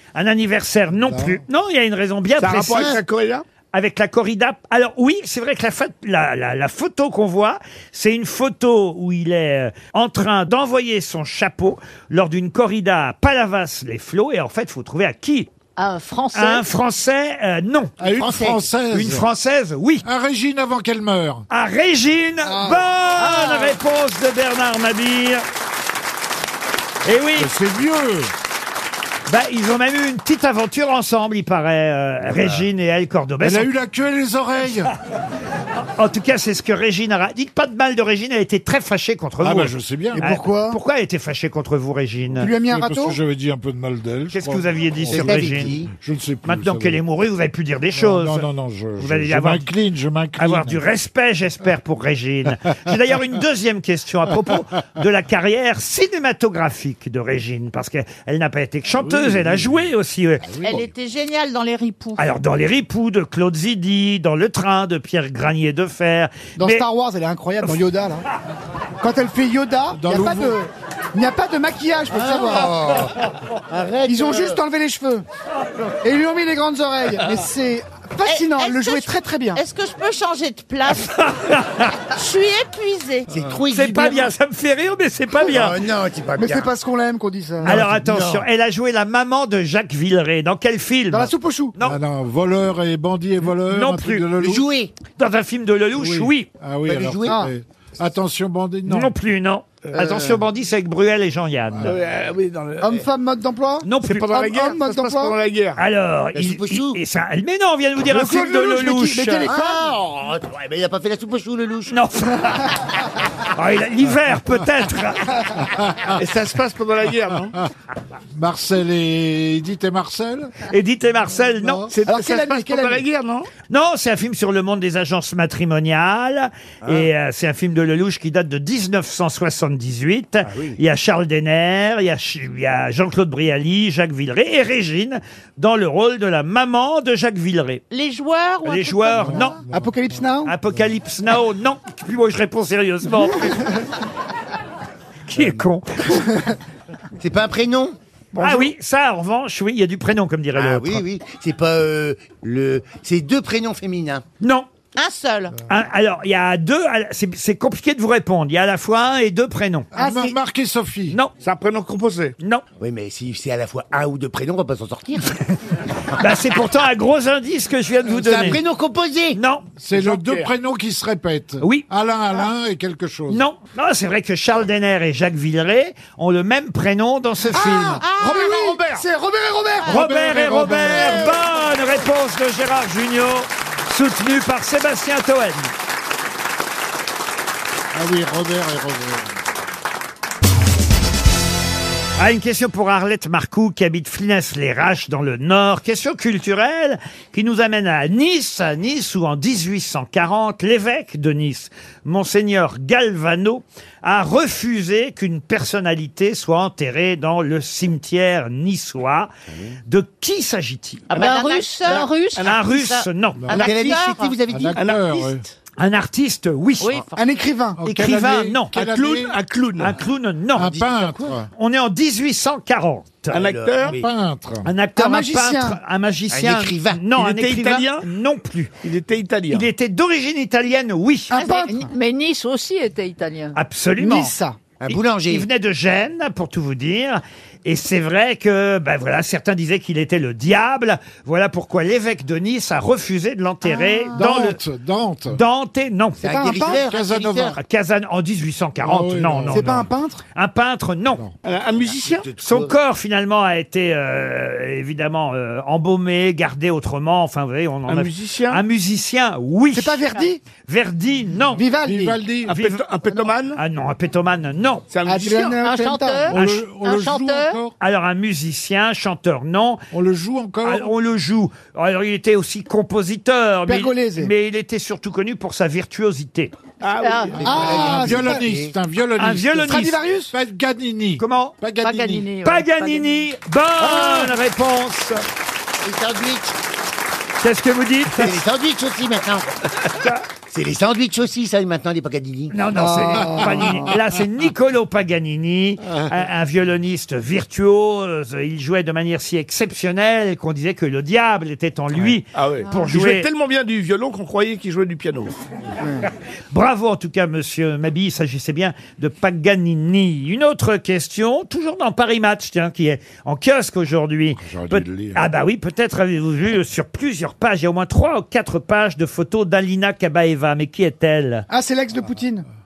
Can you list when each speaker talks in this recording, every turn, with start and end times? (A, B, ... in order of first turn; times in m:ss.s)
0:00.1-0:03.0 A
0:01.0-0:01.4 B
0:02.4-0:03.4 C
0:03.7-0:15.5 A
0:15.8-0:16.6 D
0:16.3-0:18.0 A
0:18.0-0:19.3 B
0:18.1-0:18.6 E
0:18.9-0:20.0 A
0:20.0-0:21.4 B
0:21.5-0:25.4 A
0:22.4-0:22.9 F
0:23.2-0:23.8 D
0:27.0-0:27.5 A
0:27.4-0:28.3 B
0:29.3-0:33.7 A
0:33.4-0:34.9 B
0:36.0-0:42.5 A
0:39.4-0:40.3 B
0:40.1-0:40.8 F
0:42.4-0:43.2 F
0:42.6-0:47.0 B
0:44.3-0:45.8 A
0:45.1-0:45.9 E
0:46.4-0:49.7 A
0:47.9-0:50.8 B
0:50.4-1:00.5 A
0:59.0-0:59.8 B
1:00.4-1:00.9 B
1:00.6-1:02.2 G
1:02.2-1:06.8 A
1:06.6-1:08.2 F
1:09.0-1:13.1 F
1:09.9-1:10.6 B
1:12.1-1:13.2 E
1:13.7-1:14.6 E
1:14.0-1:15.2 F
1:16.0-1:19.6 F
1:18.2-1:21.1 G
1:20.9-1:22.0 A
1:22.1-1:23.3 G
1:23.3-1:24.3 E
1:23.7-1:25.8 A
1:25.4-1:26.7 E
1:26.4-1:27.8 F
1:27.6-1:28.5 E
1:27.6-1:32.0 A
1:31.1-1:31.8 F
1:31.8-1:34.6 B
1:33.7-1:34.2 A
1:34.4-1:34.9 E
1:35.2-1:36.5 A
1:36.0-1:39.1 B
1:36.9-1:37.4 E
1:37.2-1:37.5 F
1:38.9-1:42.0 A
1:39.9-1:40.2 C
1:40.0-1:40.3 F
1:41.8-1:43.0 C
1:42.8-1:45.4 F
1:43.8-1:44.3 A
1:44.0-1:45.8 C
1:45.8-1:49.5 A
1:46.3-1:47.0 E
1:48.0-1:49.9 F
1:49.5-1:51.9 E
1:51.9-1:52.7 A
1:53.5-1:55.3 A
1:56.1-1:57.6 C
1:58.3-2:00.5 B
2:00.7-2:01.9 A
2:01.6-2:01.9 B
2:01.9-2:03.5 C
2:02.0-2:03.0 F
2:03.7-2:17.8 A
2:10.5-2:10.8 E
2:17.9-2:19.6 G
2:18.6-2:19.6 A
2:19.2-2:20.1 B
2:19.7-2:20.5 F
2:20.4-2:23.7 A
2:25.3-2:26.3 A
2:27.2-2:27.9 E
2:28.4-2:28.7 C
2:28.4-2:31.0 A
2:30.5-2:34.2 E
2:34.4-2:34.7 A
2:35.0-2:35.5 G
2:35.7-2:39.9 A
2:39.9-2:41.2 B
2:40.0-2:40.4 F
2:41.4-2:42.3 C
2:42.8-2:45.4 E
2:46.1-2:48.6 A
2:48.1-2:49.4 E
2:49.4-2:49.7 A
2:49.8-2:53.4 B
2:49.9-2:50.5 C
2:53.3-2:58.0 A
2:57.5-3:00.1 F
2:57.8-2:58.6 G
2:58.2-2:59.0 C
2:59.9-3:05.7 A
2:59.9-3:01.4 B
3:07.9-3:09.3 B
3:12.2-3:29.3 A
3:29.5-3:29.8 E
3:29.9-3:31.1 A
3:31.1-3:34.4 G
3:31.1-3:32.4 D
3:31.9-3:32.6 C
3:32.4-3:33.5 A
3:33.5-3:34.8 E
3:33.5-3:33.9 C
3:34.5-3:35.4 B
3:34.8-3:35.4 C
3:35.8-3:37.0 A
3:36.8-3:37.3 G
3:37.2-3:37.8 F
3:37.8-3:39.4 B
3:37.8-3:38.7 A
3:38.7-3:40.0 C
3:39.8-3:40.7 A
3:40.6-3:41.5 B
3:40.6-3:41.4 E
3:41.5-3:43.4 A
3:43.3-3:44.0 C
3:43.3-3:44.0 E
3:43.9-3:44.7 B
3:44.6-3:48.7 A
3:45.0-3:45.8 F
3:46.3-3:47.0 E
3:47.1-3:48.0 C
3:48.8-3:49.7 C
3:49.5-3:51.3 A
3:51.3-3:51.9 F
3:51.4-3:53.6 D
3:53.5-3:54.3 A
3:54.0-3:54.6 F
3:54.8-3:55.5 E
3:54.9-4:04.6 A
4:04.1-4:05.4 B
4:05.3-4:06.7 A
4:06.2-4:07.6 E
4:06.2-4:06.9 F
4:06.7-4:07.6 B
4:07.5-4:09.8 A
4:08.8-4:09.9 B
4:09.5-4:10.2 F
4:10.3-4:11.2 A
4:11.4-4:12.3 C
4:11.9-4:12.8 E
4:12.4-4:20.1 A
4:17.9-4:18.6 C
4:19.7-4:20.4 F
4:20.7-4:21.6 A
4:21.6-4:22.2 F
4:21.8-4:22.5 B
4:22.4-4:23.6 C
4:22.5-4:22.8 A
4:23.5-4:24.8 A
4:24.9-4:25.6 C
4:25.0-4:26.3 F
4:25.6-4:27.6 D
4:26.3-4:27.7 B
4:26.3-4:26.6 A
4:27.8-4:29.8 A
4:29.9-4:30.9 B
4:30.6-4:36.5 A
4:33.7-4:34.3 F
4:36.8-4:37.6 C
4:37.0-4:37.4 D
4:37.4-4:38.5 F
4:37.4-4:38.7 E
4:37.4-4:42.3 B
4:39.2-4:40.0 A
4:39.7-4:40.3 F
4:41.2-4:41.6 A
4:41.8-4:43.2 D
4:42.4-4:45.2 A
4:45.8-4:46.6 E
4:47.4-4:48.4 A
4:48.1-4:49.5 E
4:50.5-4:52.5 E
4:52.5-5:03.3 A
4:52.7-4:53.9 F
5:02.0-5:05.4 C
5:06.5-5:21.4 A
5:14.4-5:15.2 B
5:21.5-5:22.5 F